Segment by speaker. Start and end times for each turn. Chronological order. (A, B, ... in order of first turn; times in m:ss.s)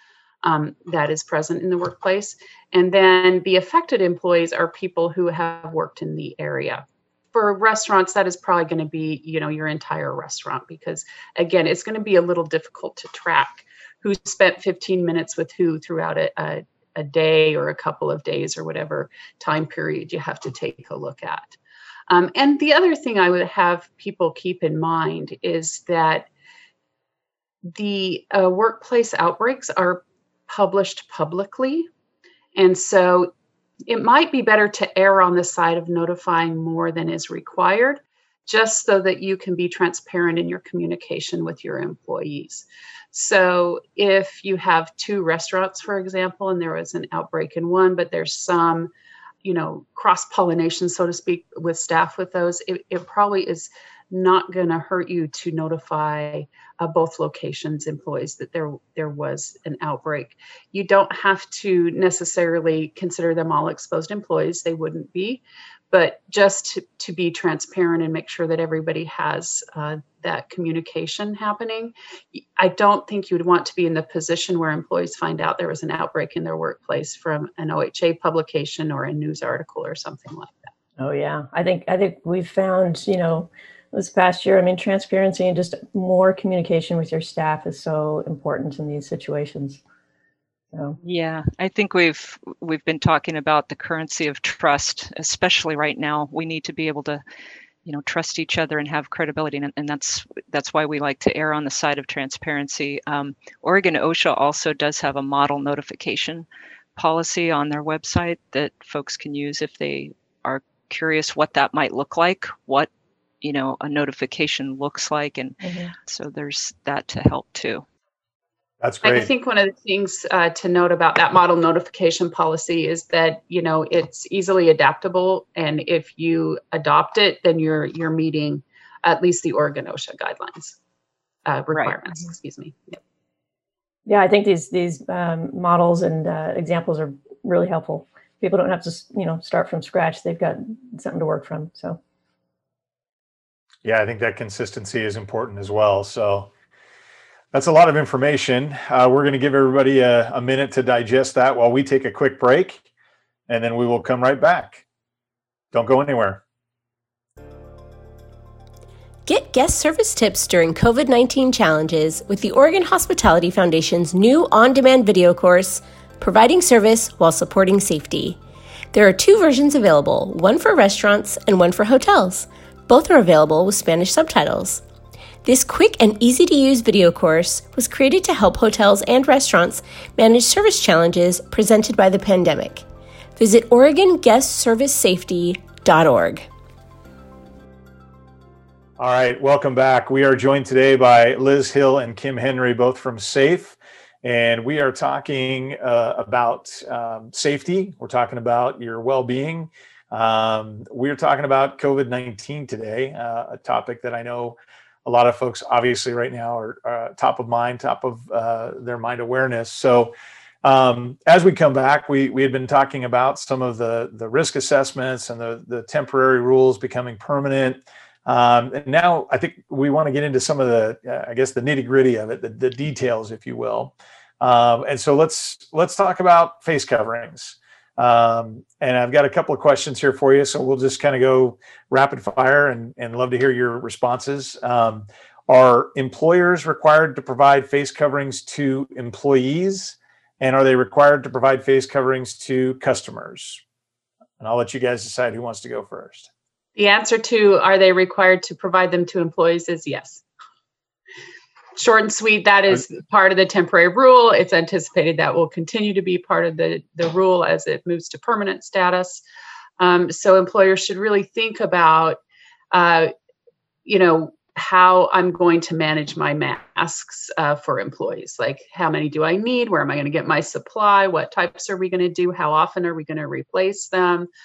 0:00.4-0:21.6 A
0:22.1-0:26.3 A
0:27.7-0:31.9 A
0:32.6-0:33.3 A
0:33.9-0:48.9 A
0:49.4-1:20.6 A
1:21.0-1:29.8 B
1:30.7-1:31.0 B
1:31.0-1:37.2 C
1:37.8-1:52.9 C
1:53.4-1:57.8 C
1:55.6-1:55.9 B
1:58.8-1:59.3 D
1:59.0-2:10.8 A
2:11.4-2:13.0 A
2:14.0-2:22.0 B
2:23.8-2:26.5 D
2:27.5-2:32.8 D
2:33.5-2:34.8 D
2:35.7-2:36.4 D
2:39.2-2:48.4 E
2:48.9-2:54.8 E
2:55.4-3:02.8 E
3:03.4-3:06.5 E
3:09.0-4:03.6 D
4:04.4-4:06.3 D
4:06.8-4:10.2 A
4:11.8-4:19.2 A
4:19.8-4:22.2 A
4:22.7-4:23.1 A
4:23.8-4:34.3 A